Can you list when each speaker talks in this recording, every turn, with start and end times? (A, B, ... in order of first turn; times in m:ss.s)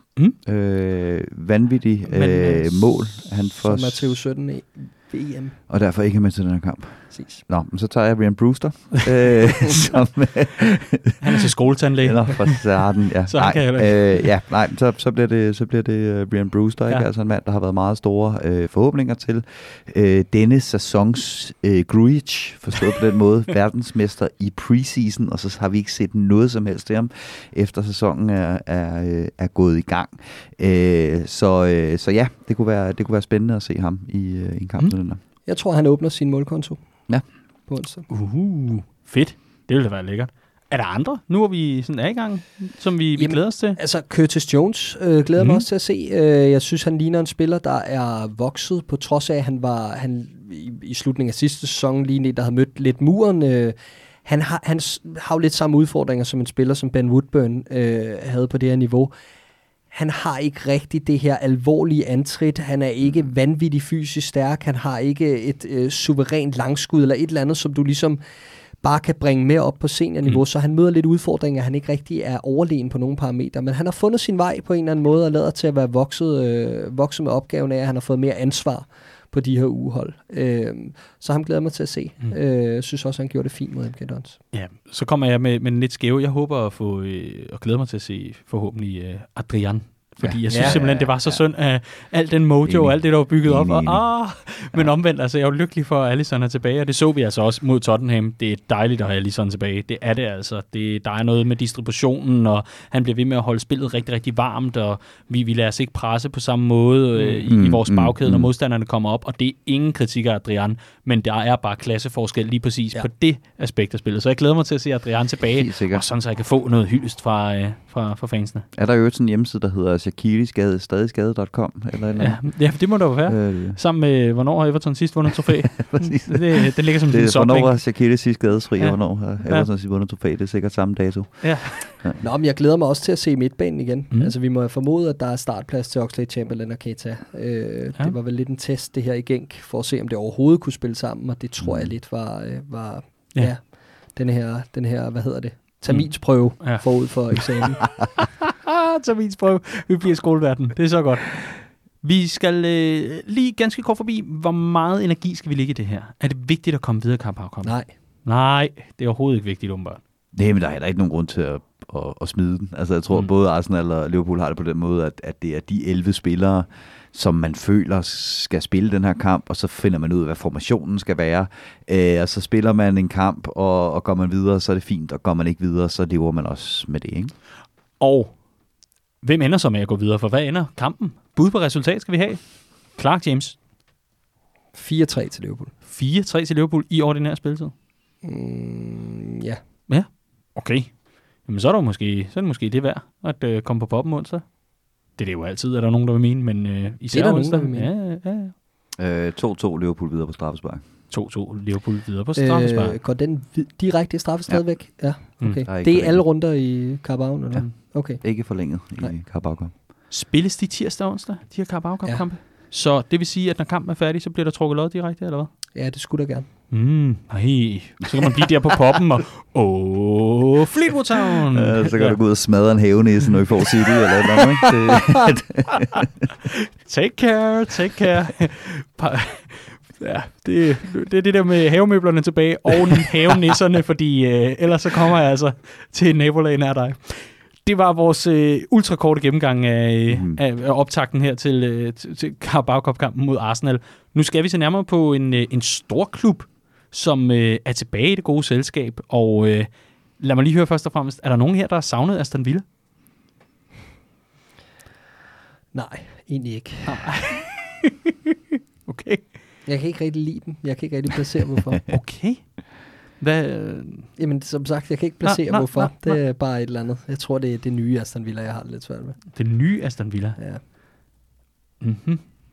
0:00.3-0:04.2 A
0:02.1-0:03.0 B
0:03.6-0:05.6 C
0:05.7-0:11.2 A
0:07.1-0:07.4 C
0:11.2-0:12.6 B
0:12.0-0:35.2 A
0:13.3-0:14.3 B
0:35.4-0:36.8 C
0:37.7-0:38.1 C
0:38.1-0:43.8 B
0:43.2-0:59.1 C
0:45.4-0:45.6 B
0:59.9-1:08.2 C
1:08.8-1:24.4 C
1:24.5-1:58.7 B
1:30.2-1:31.4 A
1:30.5-1:31.1 C
1:32.6-1:34.9 A
1:47.5-1:48.5 A
1:55.6-1:56.0 A
1:58.7-2:03.8 A
2:02.2-2:07.8 B
2:05.8-2:12.2 A
2:08.8-2:09.7 B
2:11.4-2:12.0 B
2:12.2-2:27.9 C
2:21.6-2:21.9 A
2:25.9-2:27.5 B
2:28.2-2:40.0 B
2:37.6-2:37.9 C
2:40.3-2:57.3 A
2:58.0-2:58.4 B
2:59.2-3:03.6 B
3:04.7-3:05.7 C
3:05.8-3:07.7 B
3:08.2-3:09.6 C
3:09.9-3:14.6 B
3:15.1-3:18.5 B
3:17.1-3:17.9 C
3:19.0-3:20.8 A
3:21.1-3:23.0 B
3:22.4-3:29.1 C
3:25.6-3:26.2 A
3:28.2-3:29.7 A
3:30.1-3:35.5 B
3:35.7-3:36.5 C
3:36.7-3:42.2 B
3:41.5-3:46.1 A
3:46.5-4:12.6 B
4:00.1-4:00.4 A
4:15.7-4:17.3 C
4:16.8-4:17.9 B
4:18.8-4:19.3 B
4:19.6-4:21.9 C
4:21.9-4:24.2 B
4:24.2-4:29.3 C
4:25.2-4:26.2 B
4:29.3-4:30.4 B
4:30.4-4:30.6 C
4:31.8-4:32.2 B